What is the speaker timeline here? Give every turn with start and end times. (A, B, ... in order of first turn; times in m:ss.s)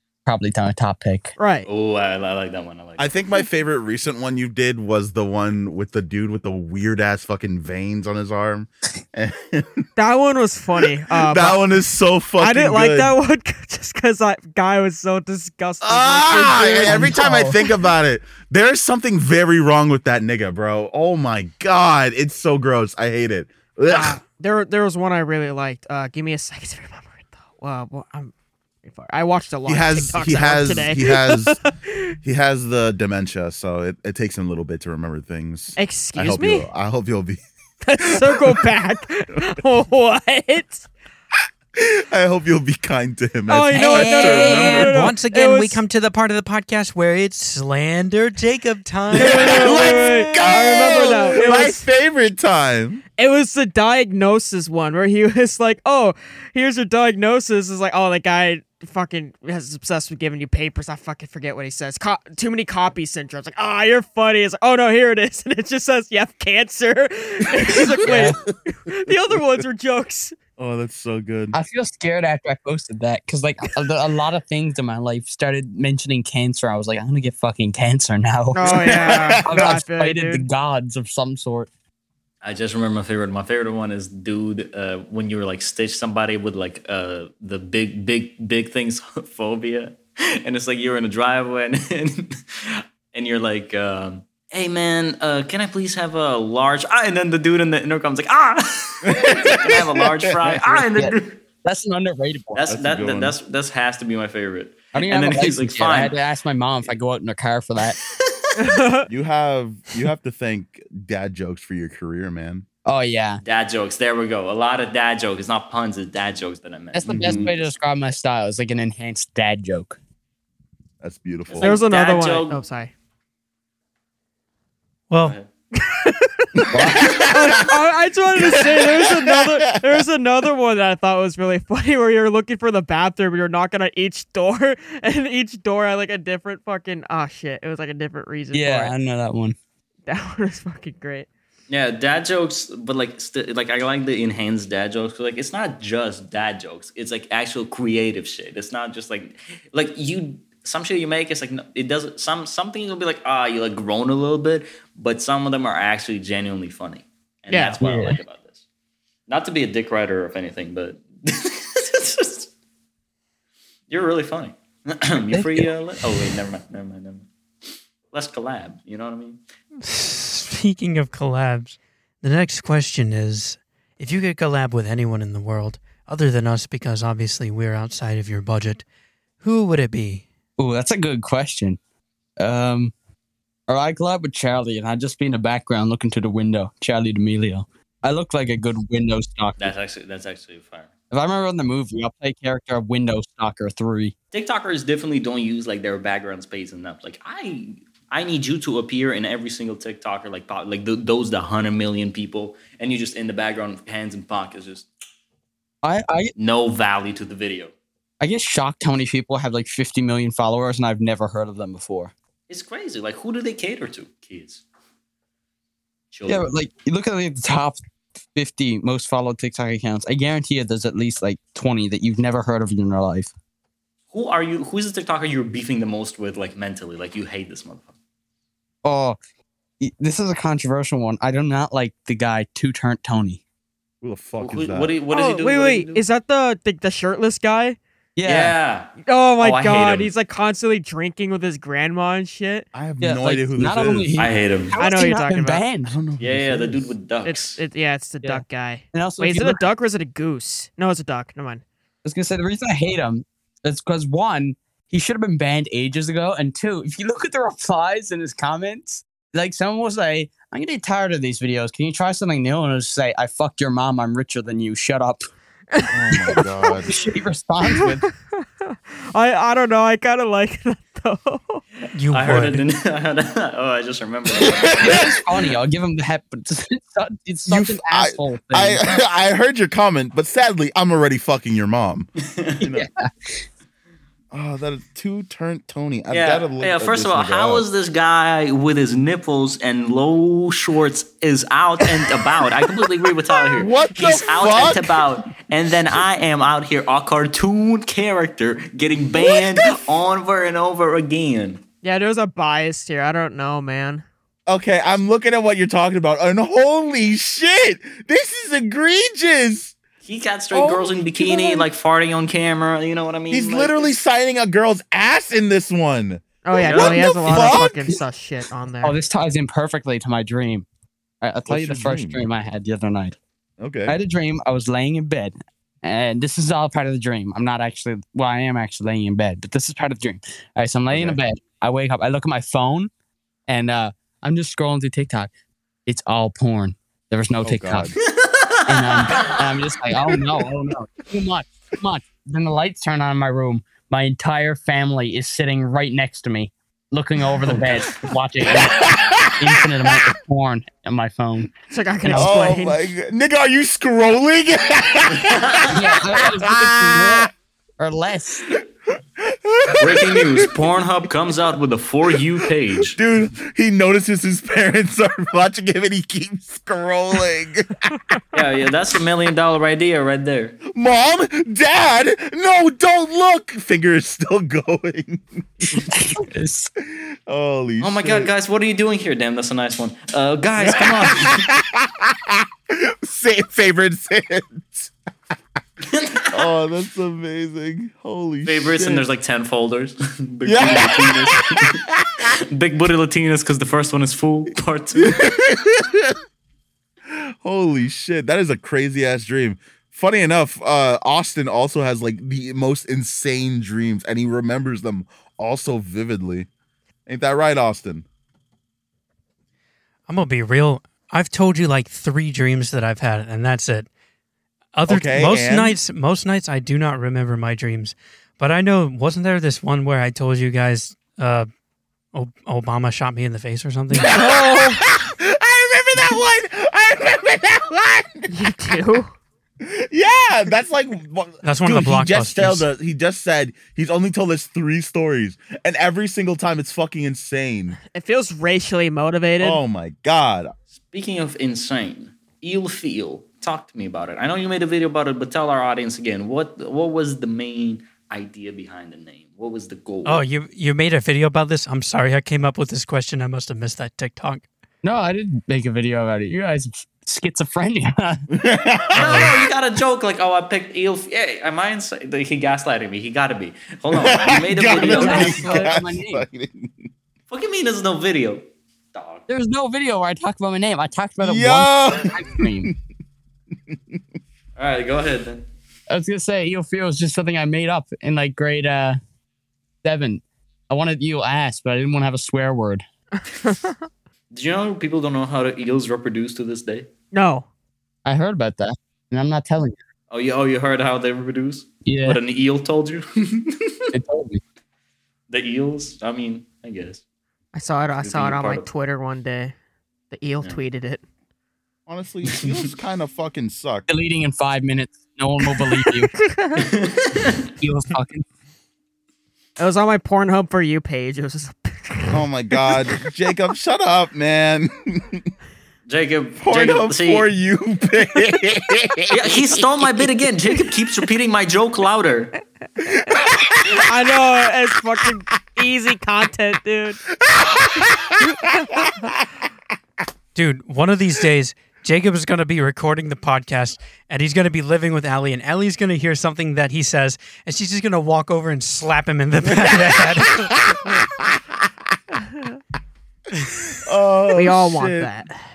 0:00.2-0:01.3 A
0:01.4-0:01.7 B
0:01.7-0:03.1 C
0:03.0-0:09.9 D
0:10.0-0:11.8 B
0:11.1-0:13.1 D
0:12.4-0:17.7 B
0:15.8-0:24.2 D
0:16.8-0:17.6 A
0:23.9-0:28.3 B
0:28.8-0:32.1 B
0:29.7-0:31.6 D
0:32.2-0:37.4 D
0:35.8-0:36.7 B
0:37.8-0:40.9 B
0:38.0-0:38.7 D
0:41.7-0:45.0 D
0:43.5-0:45.8 B
0:43.7-0:44.8 A
0:43.8-0:50.4 E
0:49.1-0:51.8 B
0:49.1-0:53.0 D
0:53.2-1:10.3 B
1:07.6-1:08.3 D
1:08.0-1:08.4 A
1:10.6-1:11.5 D
1:11.5-1:21.7 A
1:18.5-1:20.4 B
1:18.6-1:19.4 D
1:22.4-1:41.4 C
1:39.0-1:40.9 D
1:40.9-1:42.6 A
1:42.5-1:46.2 C
1:42.7-1:43.3 D
1:44.9-1:48.0 A
1:48.2-1:48.5 C
1:48.6-1:49.1 B
1:49.1-1:52.6 D
1:52.8-1:53.4 A
1:53.4-1:57.7 C
1:56.9-2:00.0 A
1:57.1-1:57.5 D
2:01.0-2:01.7 D
2:01.5-2:02.6 C
2:01.6-2:02.9 B
2:05.1-2:05.4 E
2:05.2-2:05.5 C
2:05.8-2:18.9 B
2:06.6-2:07.7 D
2:06.7-2:07.3 A
2:08.3-2:10.0 D
2:18.5-2:19.6 A
2:20.1-2:21.3 B
2:21.7-2:38.6 C
2:37.5-2:37.8 B
2:37.8-2:38.2 A
2:39.3-2:42.5 C
2:43.9-2:47.3 C
2:45.3-2:45.7 A
2:48.1-2:49.4 C
2:49.8-2:58.8 E
2:59.4-3:00.2 E
3:00.6-3:01.8 A
3:02.4-3:02.9 A
3:03.7-3:09.7 A
3:09.6-3:10.9 C
3:11.1-3:14.1 A
3:14.3-3:24.9 C
3:25.8-3:26.3 A
3:26.4-3:27.7 C
3:28.2-3:32.1 A
3:32.5-3:34.6 C
3:36.1-3:36.5 C
3:36.3-3:37.8 A
3:38.3-3:43.3 A
3:44.1-3:47.9 C
3:48.8-3:49.2 A
3:49.8-3:53.4 A
3:54.0-3:54.9 D
3:54.4-3:56.0 C
3:55.1-3:57.8 B
3:58.2-3:58.5 A
3:58.2-4:00.1 C
3:59.0-4:02.6 B
4:02.7-4:04.1 D
4:03.0-4:06.0 A
4:04.2-4:04.8 C
4:04.8-4:05.6 B
4:05.8-4:06.9 D
4:06.2-4:07.6 C
4:07.2-4:11.6 B
4:08.9-4:09.6 A
4:12.0-4:25.2 A
4:25.7-4:26.8 B
4:25.9-4:26.9 D
4:26.8-4:28.1 A
4:27.6-4:31.6 B
4:32.0-4:32.7 E
4:32.0-4:35.1 C
4:34.3-4:35.1 D
4:34.7-4:38.9 A
4:37.5-4:42.1 D
4:42.2-4:42.8 C
4:42.6-4:43.4 A
4:44.3-4:47.7 D
4:46.1-5:01.6 C
4:53.5-4:55.0 D
5:01.8-5:04.0 B
5:04.5-5:09.7 D
5:10.0-5:13.9 C
5:10.6-5:11.6 B
5:13.3-5:17.9 D
5:16.4-5:19.0 B
5:16.6-5:17.2 C
5:18.8-5:20.6 A
5:21.2-5:23.2 A
5:21.5-5:22.3 D
5:23.6-5:24.0 D
5:23.8-5:32.9 A
5:30.9-5:31.2 D
5:33.5-5:35.3 A
5:35.8-5:37.9 A
5:37.4-5:37.9 D
5:38.1-5:39.4 C
5:38.7-5:52.3 A
5:48.6-5:50.0 D
5:51.7-5:52.8 B
5:52.1-5:57.3 D
5:55.1-5:55.7 C
5:55.7-5:58.6 A
5:59.2-6:00.5 D
5:59.8-6:03.0 C
6:02.1-6:07.9 D
6:08.3-6:10.6 C
6:10.7-6:15.8 D
6:15.7-6:16.7 A
6:16.8-6:18.3 D
6:17.8-6:21.4 C
6:20.6-6:24.9 D
6:25.8-6:26.4 C
6:26.3-6:29.0 D
6:28.4-6:31.8 C
6:30.4-6:32.3 D
6:32.5-6:35.3 C
6:35.0-6:36.2 D
6:37.1-6:46.5 D
6:47.1-6:48.0 D
6:50.1-6:53.9 E
6:54.7-7:01.5 E
6:54.9-6:55.8 D
7:02.1-7:04.1 E
7:03.9-7:08.3 D
7:04.0-7:04.8 B
7:08.3-7:09.1 B
7:09.6-7:17.8 D
7:11.4-7:12.6 E
7:17.9-7:19.6 B
7:19.4-7:20.5 D
7:20.9-7:30.2 C
7:30.0-7:34.5 E
7:34.8-7:38.2 A
7:38.3-7:39.4 D
7:38.9-7:45.7 C
7:39.0-7:39.3 E
7:43.9-7:46.9 D
7:44.7-7:46.2 A
7:47.3-7:49.3 C
7:49.3-7:52.7 A
7:51.2-7:52.8 D
7:53.7-7:54.0 D
7:54.6-7:55.4 C
7:55.9-7:59.0 A
7:59.8-8:02.8 A
8:04.3-8:06.9 C
8:07.1-8:07.4 B
8:08.0-8:09.8 A
8:10.1-8:13.9 C
8:11.8-8:12.2 A
8:13.9-8:14.4 A
8:15.3-8:17.0 C
8:17.5-8:19.5 B
8:18.0-8:18.6 C
8:20.1-8:21.0 B
8:21.9-8:23.9 D
8:22.3-8:22.7 C
8:23.9-8:26.1 A
8:25.4-8:26.7 B
8:26.6-8:27.5 C
8:27.6-8:28.2 A
8:29.6-8:33.1 B
8:32.1-8:35.3 D
8:35.9-8:37.3 C
8:36.4-8:39.8 D
8:39.1-8:42.3 C
8:42.8-8:43.8 D
8:43.8-8:47.0 B
8:47.1-8:48.9 D
8:48.2-8:49.1 B
8:50.3-9:00.5 E
8:59.4-9:01.7 D
9:03.7-9:05.1 D
9:04.3-9:05.4 B